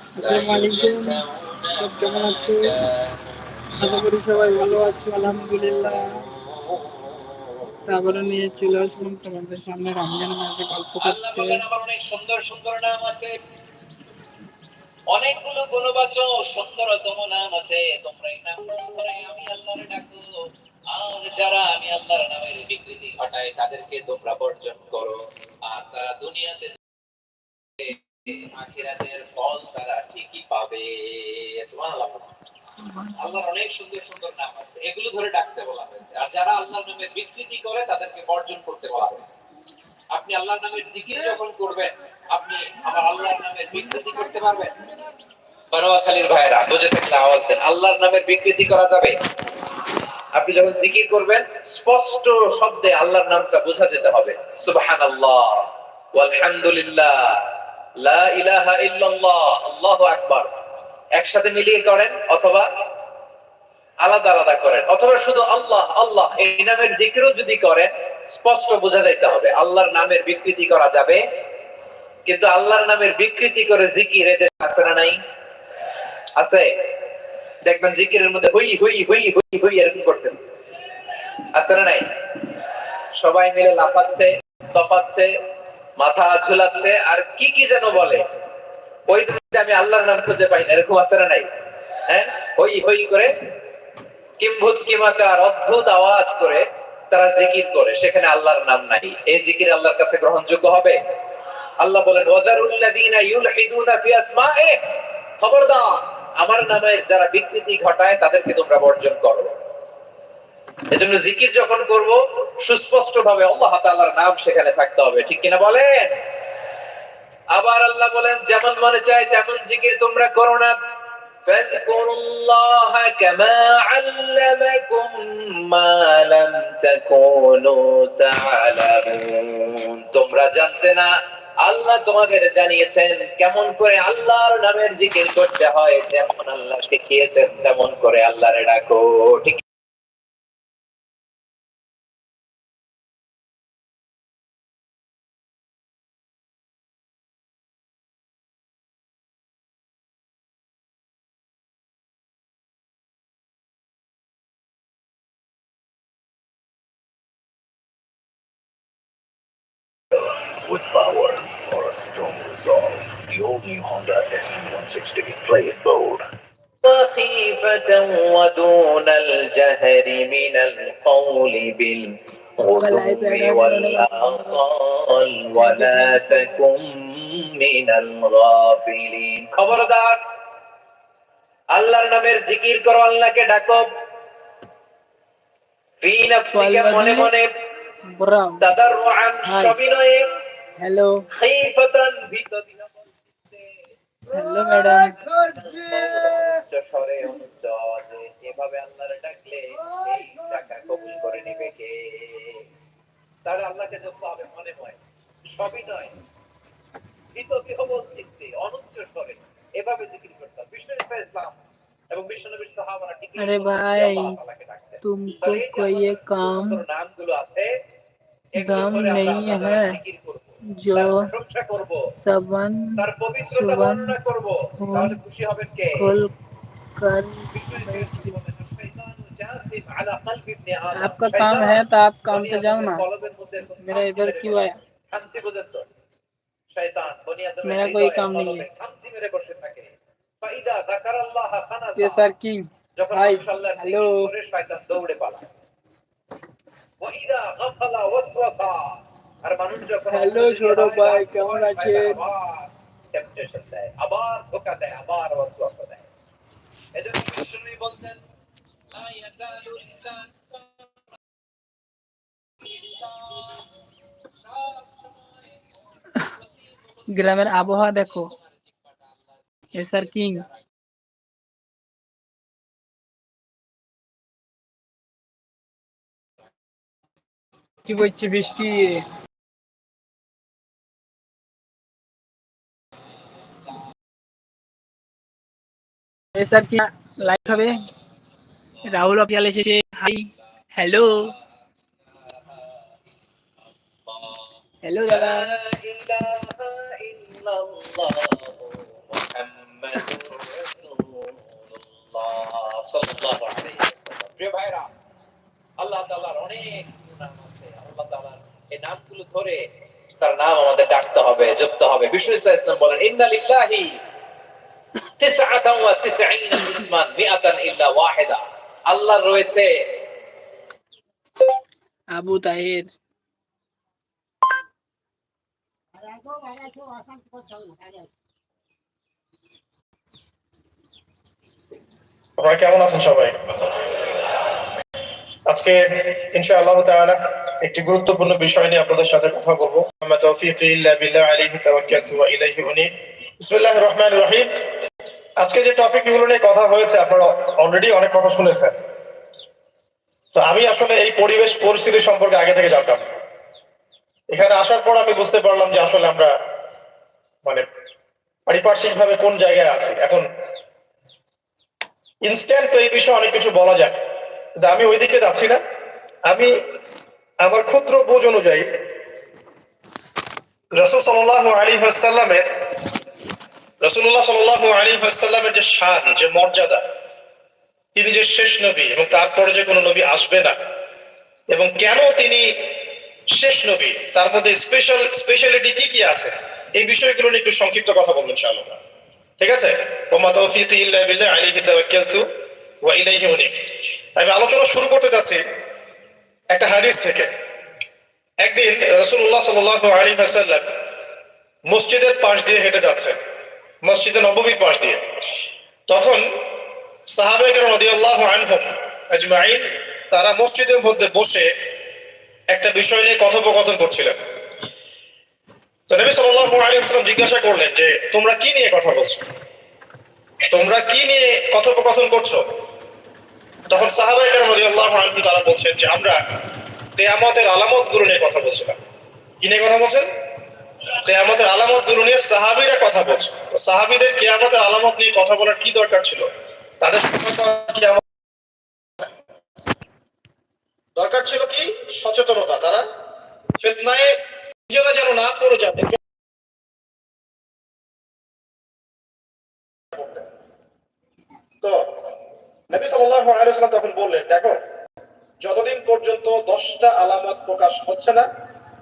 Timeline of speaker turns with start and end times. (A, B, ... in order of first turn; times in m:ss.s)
0:00.2-0:03.2 A
0:00.2-0:01.2 B
0:01.8-0:02.7 B
0:03.8-0:06.2 B
0:07.9-0:11.6 B
0:11.0-0:13.4 A
0:15.1-0:20.2 A
0:20.9-0:26.8 A
0:27.8-0:32.3 A
0:33.2-0:39.4 A
0:40.1-0:44.8 A
0:45.7-0:49.2 A
0:50.4-0:57.5 A
0:58.0-1:00.5 A
1:01.2-1:02.7 A
1:04.0-1:11.2 A
1:12.3-1:15.2 A
1:16.4-1:16.7 A
1:17.6-1:20.5 A
1:21.5-1:22.1 A
1:23.2-1:25.3 A
1:26.0-1:28.3 A
1:29.1-1:31.5 A
1:32.1-1:33.4 A
1:34.4-1:41.0 A
1:41.8-1:44.8 A
1:45.4-1:49.6 A
1:50.9-1:56.2 A
1:57.5-2:00.8 A
2:01.4-2:11.1 A
2:11.6-2:19.6 A
2:40.5-2:46.2 C
2:46.8-3:00.2 A
2:52.8-2:54.6 B
2:55.6-2:56.6 B
3:01.7-3:03.9 A
3:06.0-3:07.5 A
3:06.5-3:07.3 B
3:08.1-3:08.7 B
3:08.6-3:10.3 A
3:09.5-3:09.8 B
3:10.8-3:11.2 B
3:11.3-3:13.6 A
3:14.3-3:15.2 B
3:15.6-3:22.6 A
3:23.4-3:25.0 A
3:25.5-3:26.2 A
3:27.3-3:31.6 A
3:32.1-3:37.7 A
3:33.4-3:34.4 B
3:35.0-3:36.8 B
3:38.6-3:42.0 A
3:38.6-3:40.0 B
3:40.7-3:41.2 B
3:42.2-3:43.0 B
3:43.0-3:46.1 A
3:43.6-3:44.2 B
3:44.8-3:45.2 B
3:46.0-3:46.3 B
3:47.0-3:48.4 B
3:47.5-3:55.9 A
3:51.0-3:53.0 B
3:53.8-3:54.8 B
3:56.7-3:59.9 A
3:57.6-3:58.7 B
4:00.4-4:02.3 A
4:02.0-4:04.3 B
4:03.0-4:05.5 A
4:07.0-4:16.1 A
4:10.1-4:12.2 B
4:16.9-4:18.2 A
4:18.9-4:20.6 A
4:22.8-4:23.5 A
4:24.5-4:25.4 A
4:26.2-4:29.2 A
4:27.2-4:28.3 B
4:29.7-4:30.5 B
4:37.8-4:39.1 B
4:46.3-4:47.9 B
4:47.3-4:47.6 A
4:48.8-4:51.3 B
4:51.0-4:51.3 A
4:52.3-4:52.8 A
4:54.1-4:54.5 A
4:54.8-4:55.6 B
4:55.1-5:04.9 A
5:05.8-5:09.7 A
5:10.2-5:13.9 A
5:15.2-5:19.7 A
5:22.1-5:22.9 B
5:32.4-5:34.2 D
5:35.5-5:44.5 D
5:45.4-5:48.7 D
5:50.4-5:53.0 D
5:54.3-5:56.3 D
5:58.5-6:00.3 D
6:02.2-6:04.0 D
6:04.6-6:05.6 D
6:06.3-6:06.6 D
6:07.4-6:08.7 D
6:10.8-6:12.4 D
6:13.8-6:16.8 D
6:18.0-6:20.6 D
6:21.5-6:22.5 D
6:23.4-6:28.8 D
6:29.4-6:32.3 D
6:32.8-6:33.5 D
6:34.2-6:35.4 D
6:36.5-6:37.3 D
6:38.4-6:40.7 D
6:41.7-6:43.2 D
6:43.8-6:45.0 D
6:45.9-6:46.2 D
6:47.1-6:51.5 D
6:52.5-6:54.2 D
6:55.9-6:59.2 D
7:00.5-7:02.4 D
7:03.7-7:06.2 D
7:07.0-7:08.8 D
7:09.4-7:10.1 D
7:11.0-7:16.3 D
7:16.8-7:18.0 D
7:21.0-7:22.9 D
7:23.6-7:24.2 D
7:24.7-7:26.0 D
7:29.9-7:30.3 D
7:32.7-7:34.6 D
7:35.4-7:38.3 D